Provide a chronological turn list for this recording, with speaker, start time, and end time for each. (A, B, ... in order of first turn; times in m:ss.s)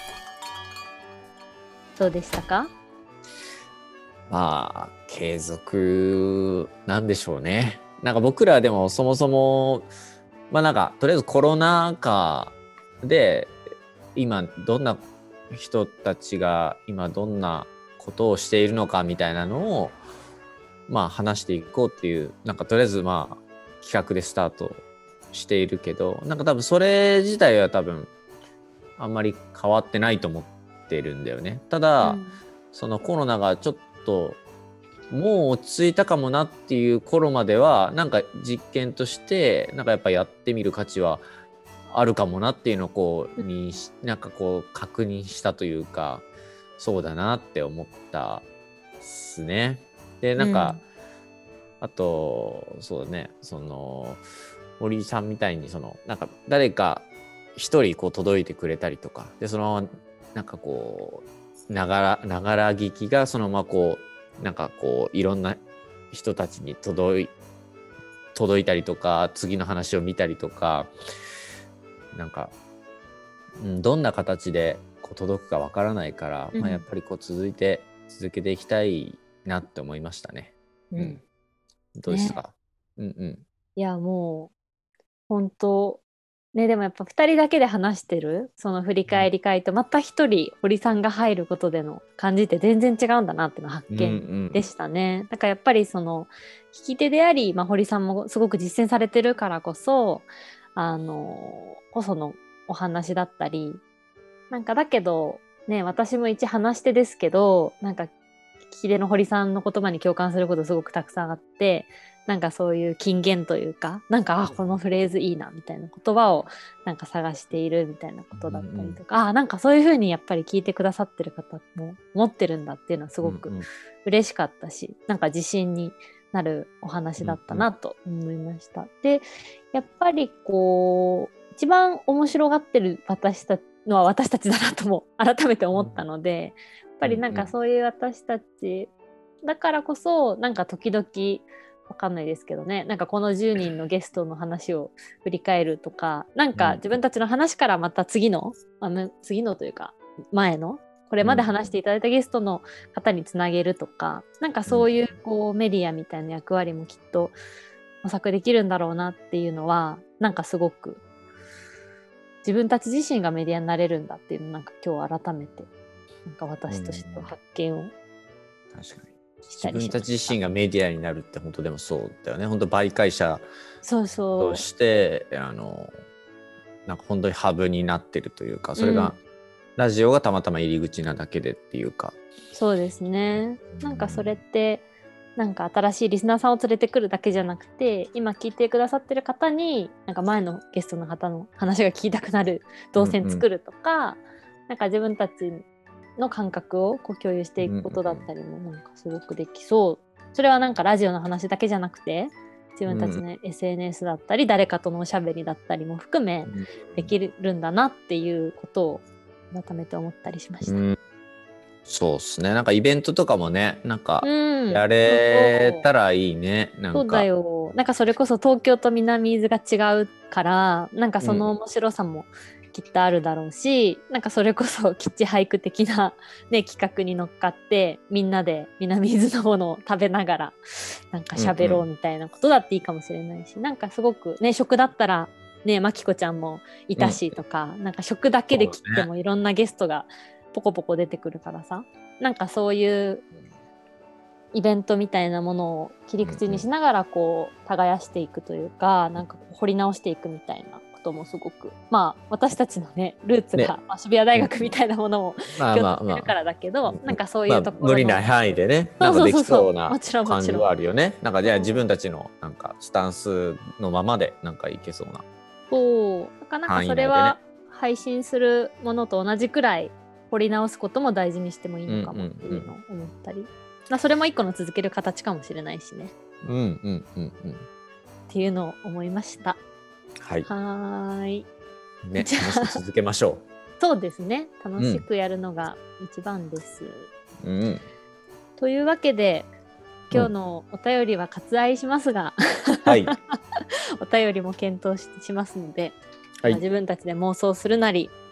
0:02.0-0:02.7 A
0:04.3-0:09.9 B
0:10.5-0:13.6 B
0:14.1-0:20.0 B
0:20.9-0:28.1 B
0:29.0-0:32.2 B
0:32.0-0:32.4 A
0:32.7-0:34.4 B
0:35.1-0:41.2 B
0:41.9-0:46.2 B
0:46.8-0:48.5 B
0:49.0-0:50.8 B
0:50.4-0:50.8 A
0:51.8-0:54.2 B
0:54.8-1:05.6 B
1:06.1-1:07.3 B
1:08.3-1:10.9 B
1:12.1-1:12.5 B
1:13.6-1:21.2 B
1:16.5-1:16.8 A
1:20.9-1:21.2 A
1:21.9-1:23.4 B
1:22.1-1:22.4 A
1:23.8-1:24.5 A
1:25.3-1:26.0 A
1:26.5-1:43.8 A
1:33.9-1:34.6 B
1:44.5-1:48.1 A
1:48.7-2:03.5 A
1:54.5-1:54.7 B
1:58.3-1:59.0 B
2:03.2-2:03.6 B
2:04.0-2:18.9 A
2:07.2-2:07.7 B
2:15.7-2:16.0 B
2:17.0-2:17.5 B
2:19.4-2:37.4 A
2:26.5-2:27.0 B
2:31.2-2:31.5 B
2:34.7-2:35.0 B
2:38.0-2:41.0 A
2:42.4-2:45.7 A
2:46.2-2:47.9 A
2:46.7-2:47.3 B
2:48.7-2:53.5 B
2:49.5-2:50.4 A
2:53.8-2:54.6 A
2:54.4-2:55.9 B
2:56.8-2:59.2 B
2:58.8-2:59.1 A
2:59.8-3:02.2 B
3:02.5-3:04.8 A
3:03.7-3:04.4 B
3:05.4-3:15.6 A
3:13.0-3:13.4 B
3:16.2-3:30.8 A
3:17.6-3:18.3 B
3:22.9-3:23.2 B
3:26.4-3:27.1 B
3:30.6-3:31.0 B
3:31.8-3:37.2 B
3:34.2-3:35.8 A
3:36.9-3:50.6 A
3:41.2-3:41.5 B
3:51.1-4:03.2 A
3:51.3-3:51.8 B
3:57.0-3:57.2 B
3:58.5-3:59.1 B
4:04.5-4:18.3 A
4:06.2-4:06.6 B
4:14.3-4:14.7 B
4:15.6-4:16.3 B
4:16.8-4:25.2 B
4:19.0-4:20.7 A
4:21.4-4:21.8 A
4:25.7-4:36.1 A
4:26.6-4:27.4 B
4:31.9-4:32.7 B
4:36.4-4:37.6 B
4:38.3-4:39.6 A
4:40.2-4:40.5 B
4:40.4-4:41.5 A
4:42.0-4:43.4 B
4:42.2-4:42.8 A
4:43.8-4:47.1 A
4:44.8-4:45.0 B
4:47.4-4:47.8 B
4:48.6-4:49.5 A
4:50.1-4:58.1 A
4:52.8-4:53.1 B